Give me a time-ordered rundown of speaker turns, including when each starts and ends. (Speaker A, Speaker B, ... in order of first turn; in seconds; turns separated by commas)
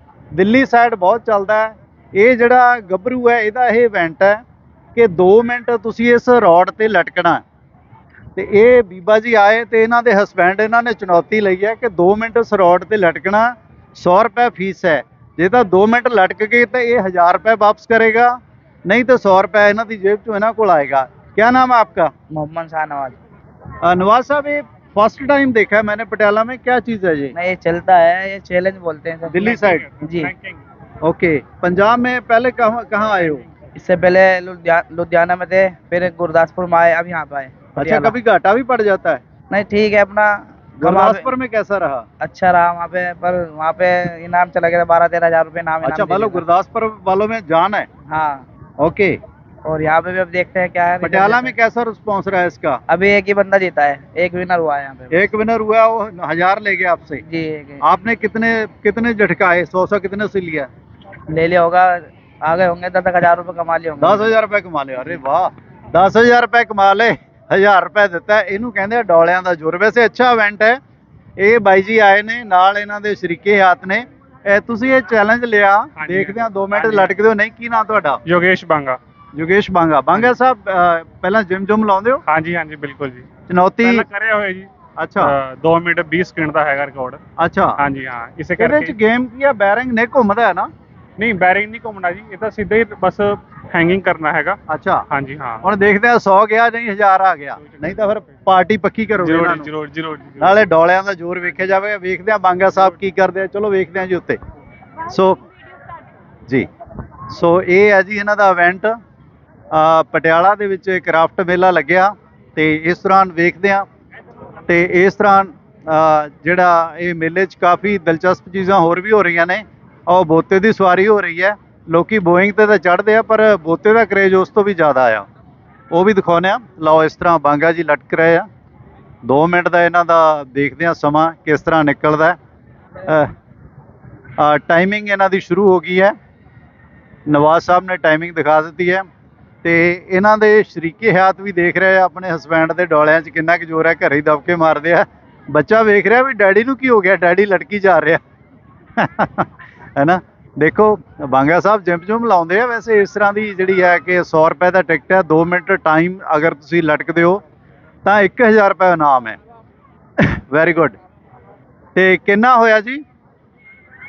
Speaker A: 0.3-4.4, Speaker A: 5.0-7.4, Speaker A: 8.4-18.3, Speaker A: 18.9-22.1, Speaker B: 22.4-23.1, Speaker A: 23.8-27.3, Speaker B: 27.4-29.4, Speaker A: 29.3-29.9, Speaker C: 29.4-30.7, Speaker B: 30.0-30.3, Speaker A: 31.0-33.5, Speaker C: 33.0-33.5, Speaker B: 33.8-38.1, Speaker A: 37.8-39.2, Speaker B: 39.5-40.3, Speaker A: 40.8-42.0, Speaker B: 40.9-41.1, Speaker B: 42.2-46.4, Speaker A: 45.8-47.9, Speaker B: 48.1-48.4, Speaker A: 48.8-49.2, Speaker B: 49.7-51.3, Speaker A: 51.0-52.8, Speaker B: 52.9-55.1, Speaker A: 55.1-57.2, Speaker B: 57.3-57.8, Speaker A: 57.8-60.7, Speaker B: 61.4-61.8, Speaker B: 62.5-64.0, Speaker A: 64.0-70.8, Speaker A: 71.4-78.2, Speaker C: 76.0-77.2, Speaker C: 78.3-79.0, Speaker A: 79.3-82.2, Speaker C: 82.3-83.3, Speaker A: 83.5-84.1, Speaker C: 83.8-87.2, Speaker A: 85.0-85.3, Speaker A: 87.4-87.8, Speaker C: 87.8-89.0, Speaker A: 88.6-90.7, Speaker C: 91.2-94.6, Speaker A: 94.7-95.0, Speaker C: 95.1-95.6, Speaker A: 95.6-99.7, Speaker C: 97.6-98.4, Speaker C: 99.2-100.7, Speaker A: 100.4-104.4, Speaker A: 105.1-105.4, Speaker A: 107.3-108.9, Speaker A: 109.7-113.9, Speaker A: 114.7-125.3, Speaker A: 125.9-128.5, Speaker A: 129.2-132.4, Speaker A: 134.4-136.2, Speaker A: 137.3-139.1, Speaker A: 139.6-148.2, Speaker A: 149.0-157.4, Speaker A: 158.1-159.4, Speaker A: 160.2-161.0, Speaker A: 162.0-163.0